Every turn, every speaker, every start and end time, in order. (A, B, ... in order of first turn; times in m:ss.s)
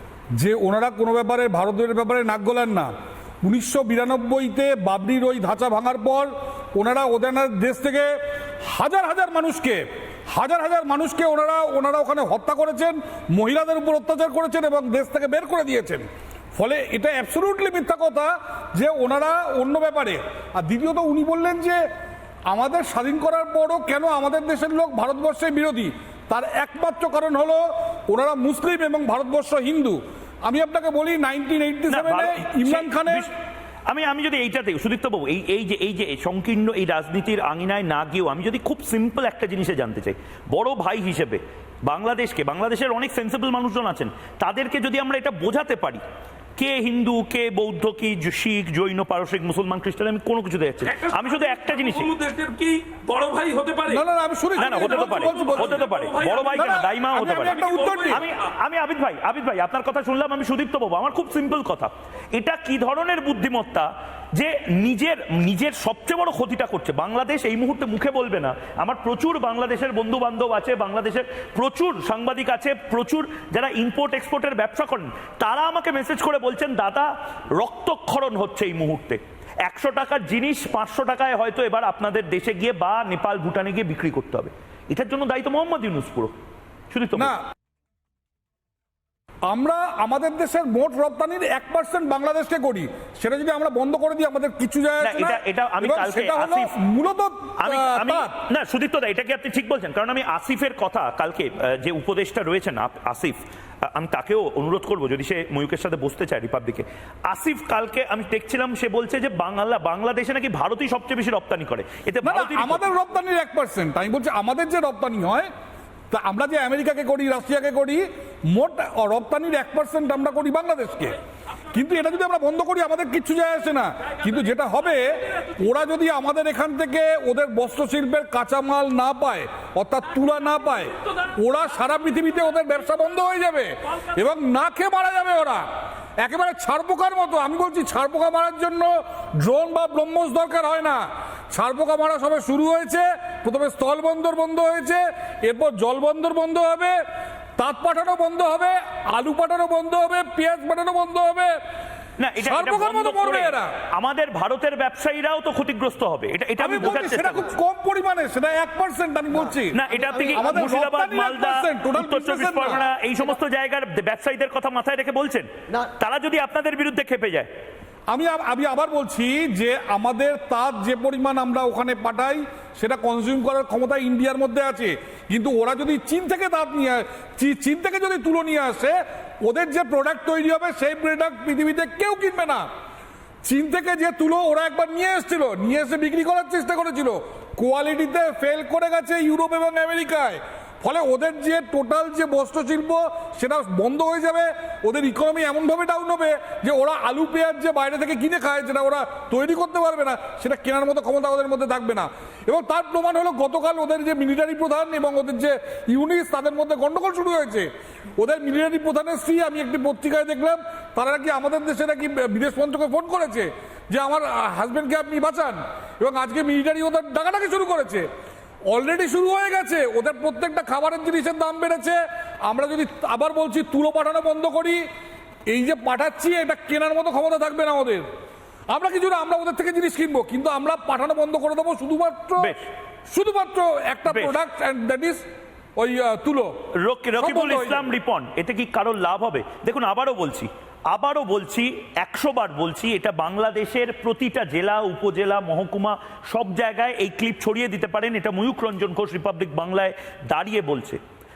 0:00.4-0:02.9 A
0:03.4-0:21.8 A
0:22.5-0:33.3 A
0:31.9-0:33.3 B
0:33.9-0:46.0 B
0:46.6-0:52.1 B
0:50.9-0:54.0 C
0:53.9-0:55.8 A
0:54.6-0:58.2 C
0:54.6-1:26.4 B
0:56.5-0:58.2 A
1:26.9-1:27.3 B
1:29.5-1:38.3 A
1:35.0-1:36.7 B
1:37.6-1:52.8 B
1:52.2-1:55.5 A
1:56.1-2:01.2 A
2:01.7-2:15.6 A
2:16.2-2:27.0 A
2:27.6-2:31.5 A
2:32.2-2:37.5 B
2:32.4-2:33.7 A
2:36.6-2:42.9 A
2:39.7-2:47.5 B
2:48.1-3:02.6 A
3:03.4-3:38.1 A
3:38.7-3:44.8 A
3:45.5-3:48.1 A
3:48.7-3:52.6 A
3:53.1-3:55.2 A
3:54.1-3:54.4 B
3:55.8-3:56.5 A
3:56.8-4:11.0 B
3:57.2-3:57.9 A